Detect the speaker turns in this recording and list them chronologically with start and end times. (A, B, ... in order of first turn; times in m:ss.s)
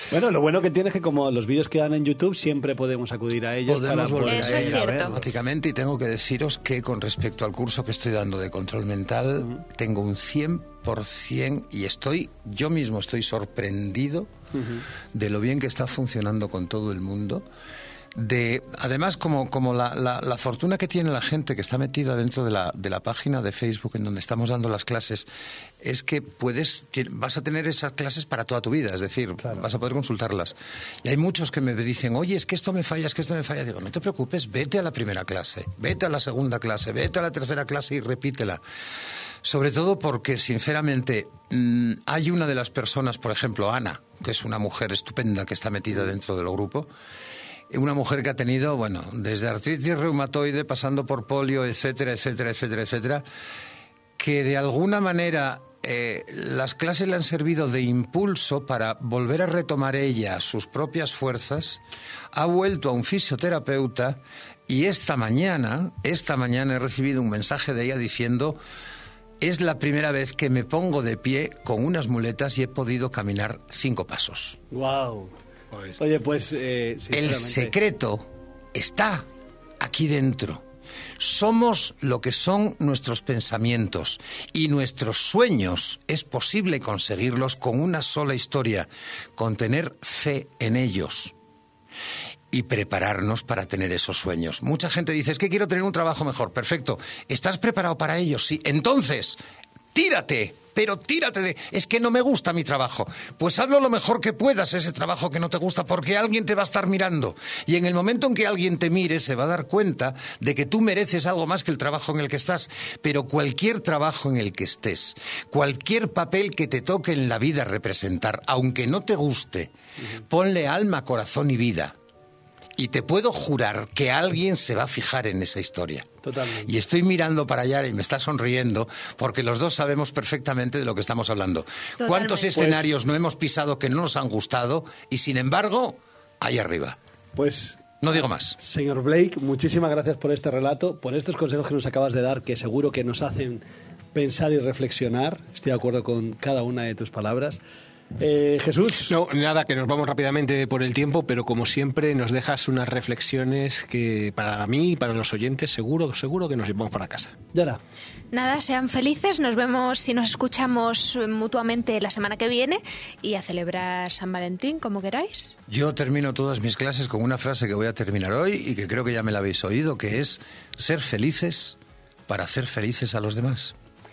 0:00.1-0:05.2 A
0:03.6-0:14.3 B
0:04.2-0:05.2 C
0:14.5-0:14.8 A
0:15.1-0:17.4 B
0:18.1-0:25.3 B
0:25.8-0:38.6 B
0:29.4-0:29.6 A
0:39.4-0:46.9 B
0:47.7-0:53.2 B
0:54.2-1:01.8 B
1:02.3-1:08.6 B
1:09.4-1:14.6 B
1:14.7-1:15.3 A
1:15.7-1:16.0 D
1:16.0-1:17.8 A
1:17.1-1:19.2 B
1:19.8-1:20.6 B
1:21.2-1:31.3 B
1:32.5-1:39.4 B
1:39.9-1:59.7 B
2:00.0-2:00.2 A
2:00.3-2:01.9 B
2:02.8-2:06.1 B
2:06.2-2:06.7 A
2:06.6-2:17.0 B
2:12.0-2:12.6 C
2:12.5-2:12.9 A
2:17.4-2:23.6 A
2:18.0-2:18.6 B
2:24.1-2:27.6 A
2:28.2-2:29.1 A
2:29.1-2:37.4 D
2:37.5-2:37.8 A
2:38.3-2:45.5 C
2:45.7-2:53.7 B